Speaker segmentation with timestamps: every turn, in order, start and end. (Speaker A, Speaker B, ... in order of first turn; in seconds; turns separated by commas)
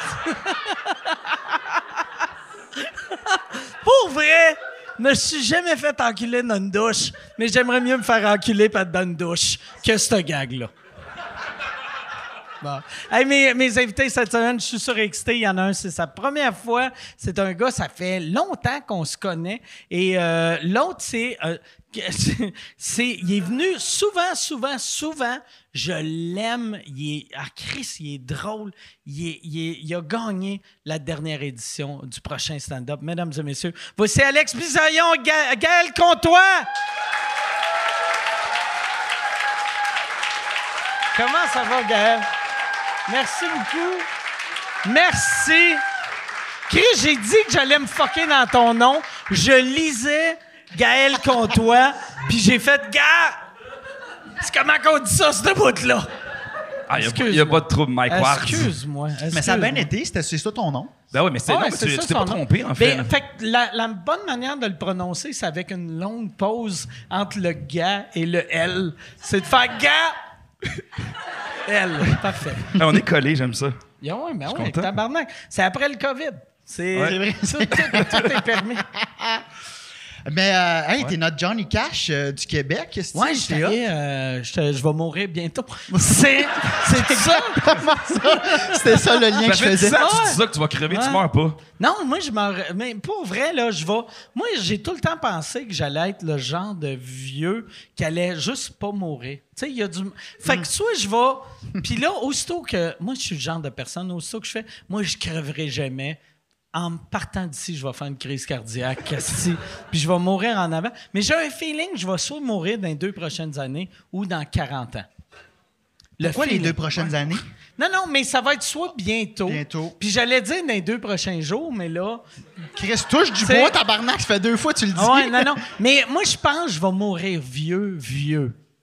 Speaker A: 0.1-1.2, Speaker A: 3.0-10.7, Speaker A: 12.6-36.7, Speaker A: 41.1-42.3, Speaker A: 43.1-44.1, Speaker A: 44.8-45.8, Speaker A: 46.7-53.4, Speaker A: 54.4-56.1, Speaker B: 56.9-58.7, Speaker A: 57.0-59.9, Speaker C: 59.3-60.9, Speaker B: 61.1-63.1, Speaker A: 61.5-70.2, Speaker A: 71.7-72.8, Speaker B: 72.7-73.8, Speaker A: 74.0-78.8, Speaker B: 74.5-74.9, Speaker C: 77.0-79.5, Speaker B: 77.8-78.2, Speaker C: 80.2-83.8, Speaker A: 83.1-88.8, Speaker C: 85.9-90.0, Speaker B: 89.4-91.6, Speaker A: 90.0-91.2, Speaker A: 91.8-106.2, Speaker A: 106.7-115.1, Speaker A: 116.2-117.0, Speaker C: 116.2-117.5, Speaker A: 117.8-122.2, Speaker C: 119.5-120.0, Speaker C: 122.7-125.6, Speaker A: 123.4-123.7, Speaker A: 124.9-128.6